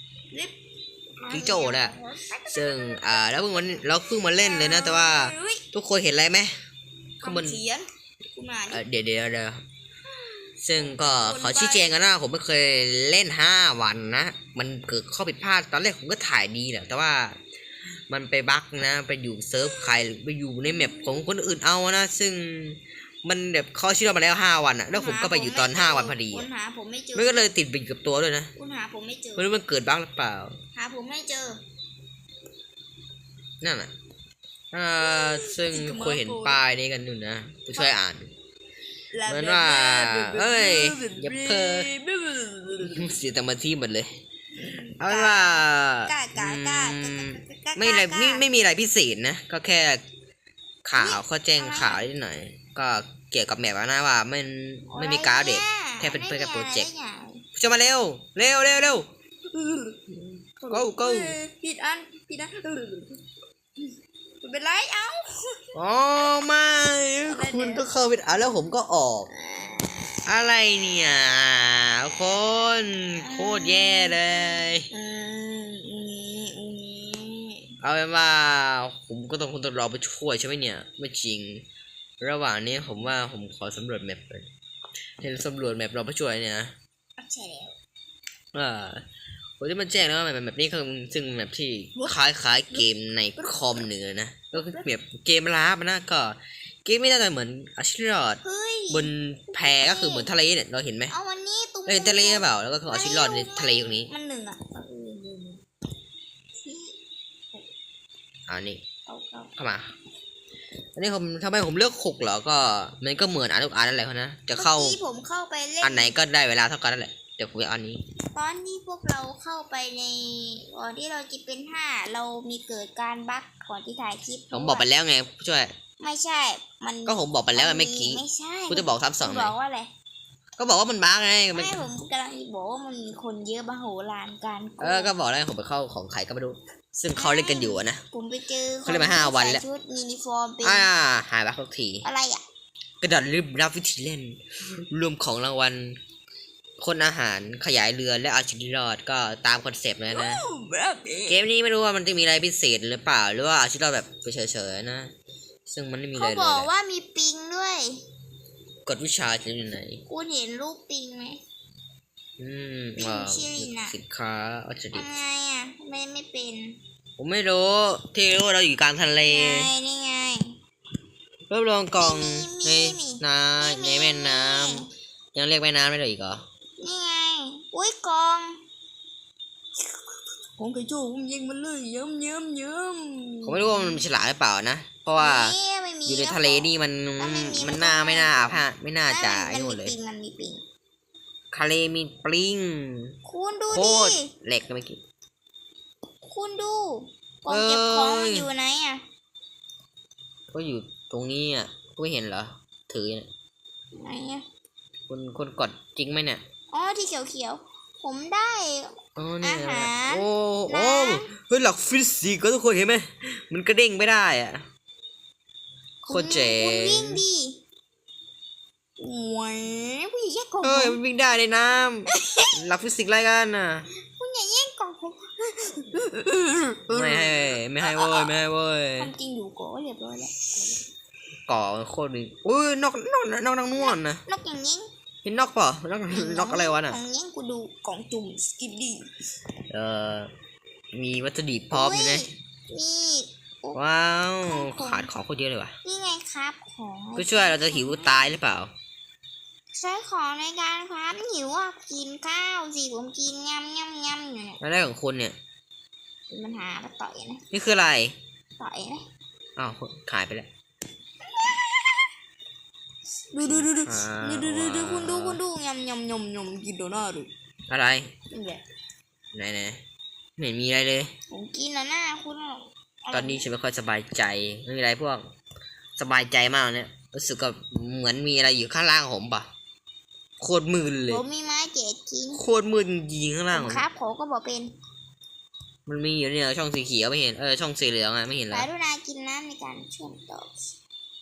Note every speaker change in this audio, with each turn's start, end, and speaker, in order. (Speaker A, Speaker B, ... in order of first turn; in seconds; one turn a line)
Speaker A: 1.2-5.7
Speaker B: 1.3-1.9
Speaker B: 2.5-6.6
Speaker B: 7.2-7.6
Speaker A: 7.2-8.8
Speaker B: 8.7-9.6
Speaker A: 10.2-12.0
Speaker B: 10.6-17.4
Speaker B: 18.1-26.5
Speaker A: 19.6-20.0
Speaker A: 20.7-21.2
Speaker A: 24.9-27.5
Speaker B: 27.1-28.5
Speaker A: 28.6-29.5
Speaker B: 29.4-30.6
Speaker A: 30.7-31.6
Speaker B: 33.6-33.9
Speaker B: 34.7-38.3
Speaker A: 35.0-36.6
Speaker A: 39.1-43.1
Speaker B: 39.3-41.9
Speaker B: 42.8-44.2
Speaker A: 44.6-48.5
Speaker B: 45.0-50.0
Speaker B: 50.8-56.9
Speaker A: 51.0-52.0
Speaker A: 54.9-57.4
Speaker B: 57.5-59.1
Speaker A: 58.5-59.0
Speaker A: 59.5-63.2
Speaker B: 60.7-61.4
Speaker A: 64.4-65.6
Speaker B: 65.7-69.3
Speaker A: 67.3-67.9
Speaker A: 69.3-70.2
Speaker B: 70.3-74.9
Speaker A: 73.2-77.7
Speaker B: 77.8-81.6
Speaker B: 82.2-84.5
Speaker B: 85.2-86.7
Speaker A: 87.2-87.8
Speaker B: 88.5-89.0
Speaker B: 89.6-101.1
Speaker A: 92.7-93.8
Speaker A: 94.5-94.9
Speaker A: 98.4-100.3
Speaker A: 101.1-105.6
Speaker B: 101.9-104.1
Speaker A: 106.6-107.0
Speaker B: 108.5-108.8
Speaker A: 109.1-109.5
Speaker B: 109.6-109.9
Speaker B: 111.0-115.0
Speaker A: 114.5-116.2
Speaker B: 115.8-118.0
Speaker A: 118.3-124.9
Speaker B: 124.5-125.7
Speaker A: 126.0-129.9
Speaker B: 127.1-129.6
Speaker B: 130.6-131.8
Speaker A: 131.5-135.1
Speaker B: 134.8-138.0
Speaker A: 137.2-140.9
Speaker B: 138.9-139.6
Speaker B: 140.6-142.1
Speaker A: 142.0-142.4
Speaker B: 143.0-146.0
Speaker B: 146.8-150.4
Speaker A: 150.1-151.4
Speaker B: 151.3-155.1
Speaker B: 155.7-156.7
Speaker A: 156.1-158.0
Speaker B: 158.9-160.0
Speaker A: 160.1-161.4
Speaker B: 162.4-165.1
Speaker A: 163.0-164.0
Speaker A: 164.9-166.8
Speaker B: 167.2-169.7
Speaker A: 169.2-170.6
Speaker B: 171.5-176.4
Speaker A: 172.0-174.9
Speaker A: 176.8-178.6
Speaker A: 180.6-184.0
Speaker B: 183.4-189.9
Speaker A: 185.2-190.6
Speaker B: 191.5-193.1
Speaker A: 193.2-194.3
Speaker B: 193.7-195.0
Speaker A: 196.3-199.0
Speaker B: 197.5-198.5
Speaker B: 200.5-203.3
Speaker A: 203.9-204.4
Speaker B: 205.1-206.4
Speaker A: 206.7-211.3
Speaker B: 209.2-214.6
Speaker A: 216.1-217.6
Speaker B: 216.1-217.2
Speaker A: 219.0-221.0
Speaker B: 220.6-223.9
Speaker A: 222.1-222.5
Speaker A: 224.1-228.3
Speaker B: 226.9-229.1
Speaker A: 229.0-230.8
Speaker B: 231.5-234.2
Speaker A: 233.7-234.9
Speaker B: 235.2-237.0
Speaker A: 236.1-239.1
Speaker B: 239.7-240.3
Speaker B: 240.9-242.3
Speaker A: 241.7-243.8
Speaker B: 243.8-245.8
Speaker A: 244.4-245.1
Speaker A: 245.8-248.4
Speaker B: 247.2-248.7
Speaker A: 249.7-254.6
Speaker B: 254.6-255.4
Speaker A: 256.3-257.4
Speaker B: 257.5-258.2
Speaker A: 258.6-259.0
Speaker B: 259.6-260.5
Speaker A: 261.4-262.1
Speaker A: 263.3-267.3
Speaker B: 263.4-265.4
Speaker B: 267.7-268.1
Speaker A: 268.3-268.6
Speaker B: 269.3-269.8
Speaker B: 270.4-271.1
Speaker A: 271.3-273.5
Speaker B: 273.1-275.2
Speaker B: 276.0-279.5
Speaker B: 280.4-281.2
Speaker A: 281.1-282.4
Speaker B: 282.3-283.9
Speaker A: 283.5-284.7
Speaker B: 285.9-288.7
Speaker A: 288.5-290.6